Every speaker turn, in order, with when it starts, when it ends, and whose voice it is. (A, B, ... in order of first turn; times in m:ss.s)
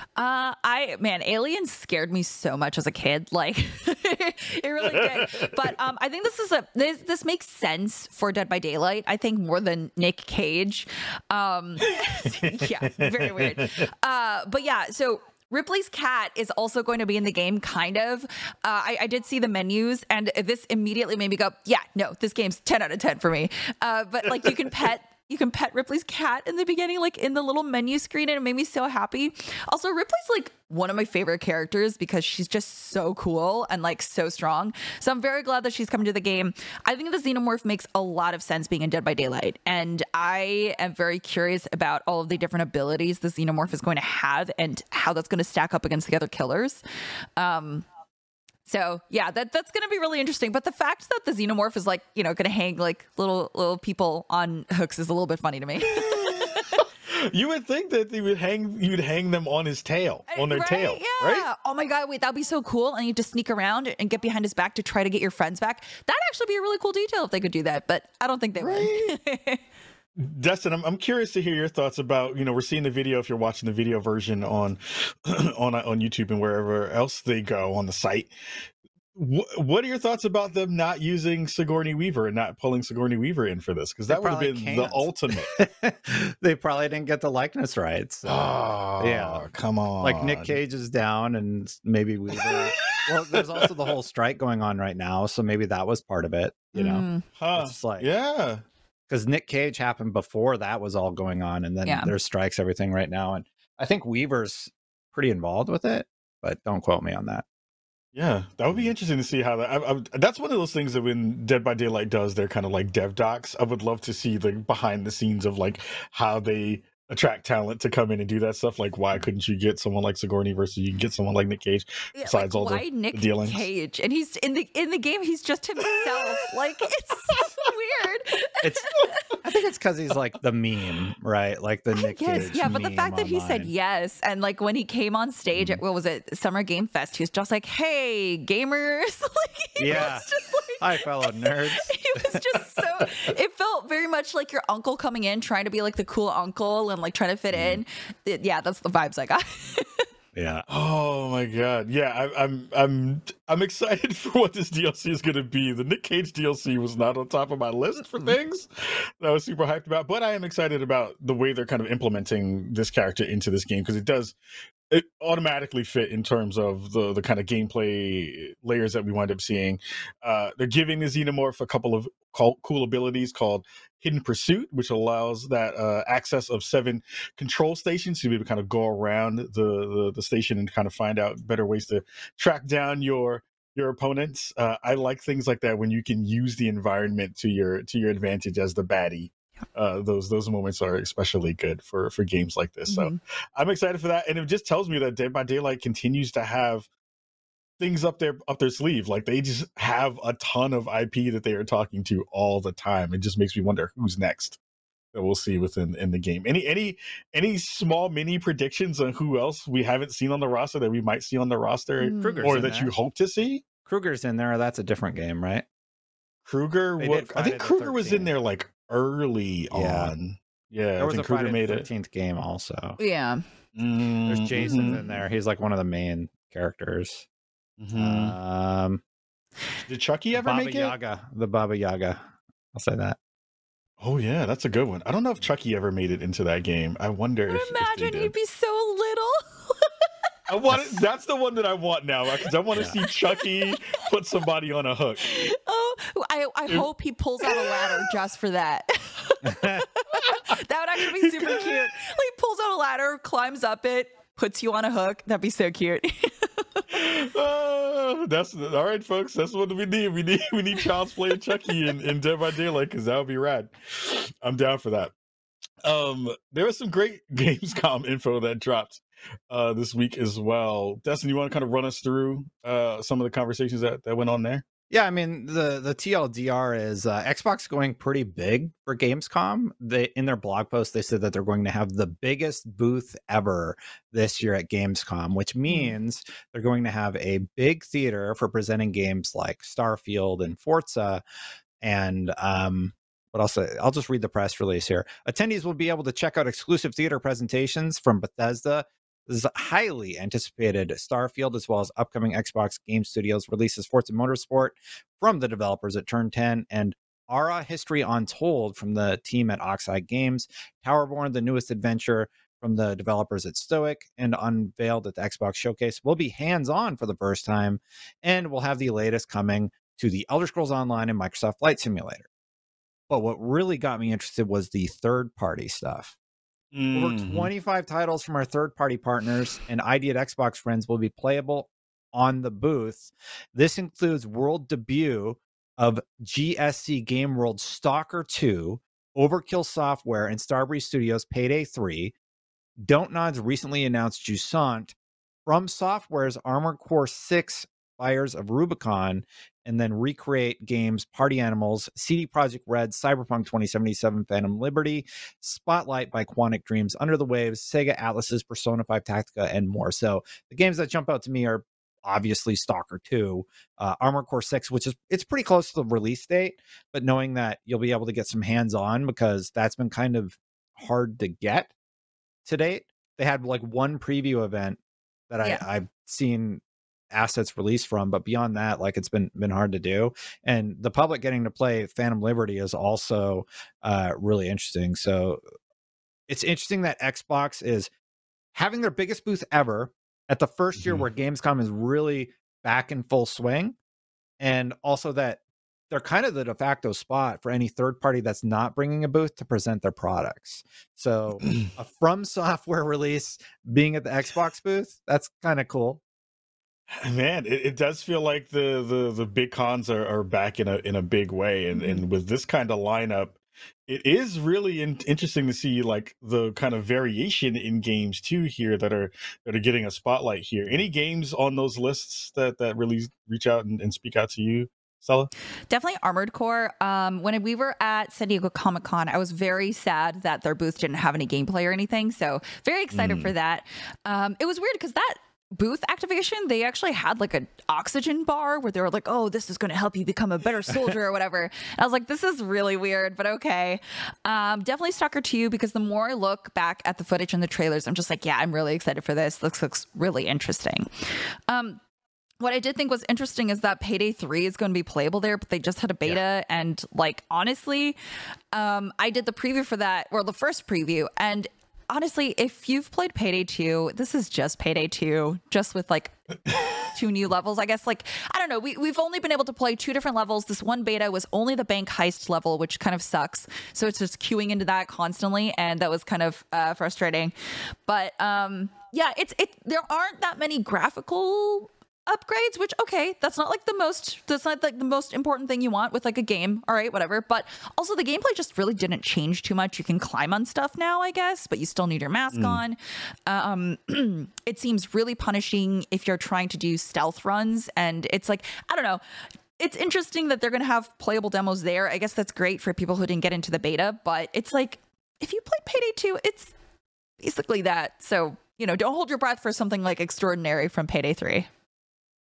0:00.2-0:46.8 A
0:04.8-0:05.7 B
0:11.9-0:13.9 B
0:47.4-0:47.8 A
0:48.7-0:56.8 A
0:55.9-1:01.5 B
1:00.3-1:09.6 A
1:08.6-1:09.1 B
1:10.2-1:18.3 B
1:19.2-1:25.6 B
1:24.1-1:29.4 C
1:28.2-1:30.6 B
1:30.0-1:38.1 C
1:32.4-1:33.9 B
1:36.7-1:37.2 A
1:37.4-1:38.6 B
1:39.1-1:47.4 C
1:41.8-1:42.1 A
1:48.2-2:03.7 B
2:02.2-2:09.2 A
2:08.6-2:08.9 C
2:09.4-2:13.7 C
2:12.0-2:30.0 A
2:12.4-2:12.7 B
2:19.8-2:20.3 C
2:20.8-2:22.4 C
2:30.3-2:30.6 C
2:30.7-2:44.4 B
2:44.9-3:16.9 B
3:12.9-3:13.2 A
3:17.8-3:24.6 B
3:25.1-3:33.6 B
3:32.0-3:32.5 A
3:32.1-3:32.9 C
3:33.8-3:35.7 C
3:36.4-3:41.9 B
3:37.0-3:38.3 C
3:39.7-3:40.1 C
3:41.0-3:43.0 C
3:43.0-3:43.4 A
3:43.8-3:45.0 B
3:44.3-3:47.3 C
3:44.7-3:45.0 A
3:47.8-3:48.4 B
3:47.9-3:49.0 C
3:49.9-3:51.0 B
3:50.3-3:53.2 C
3:54.0-3:58.3 B
3:57.5-3:59.9 A
4:00.5-4:05.5 B
4:00.7-4:01.0 C
4:05.2-4:16.8 A
4:07.4-4:08.0 B
4:09.5-4:09.8 C
4:11.2-4:11.7 B
4:16.9-4:25.1 B
4:25.8-4:34.6 B
4:34.9-4:51.2 C
4:45.7-4:46.0 A
4:51.8-5:22.3 C
5:23.1-5:26.2 C
5:26.7-5:27.5 B
5:26.9-5:42.1 C
5:42.8-5:45.0 C
5:45.5-6:11.7 C
6:12.4-6:14.8 C
6:15.3-6:25.4 C
6:26.3-6:27.9 C
6:28.5-6:33.8 C
6:30.8-6:31.0 B
6:34.4-6:46.0 C
6:46.9-7:05.3 B
6:51.8-6:52.0 A
7:05.7-7:31.8 A
7:12.9-7:13.3 B
7:32.4-7:38.0 A
7:38.5-7:57.3 A
7:57.9-8:19.0 A
8:12.3-8:12.6 B
8:19.6-8:26.6 A
8:27.2-8:31.5 A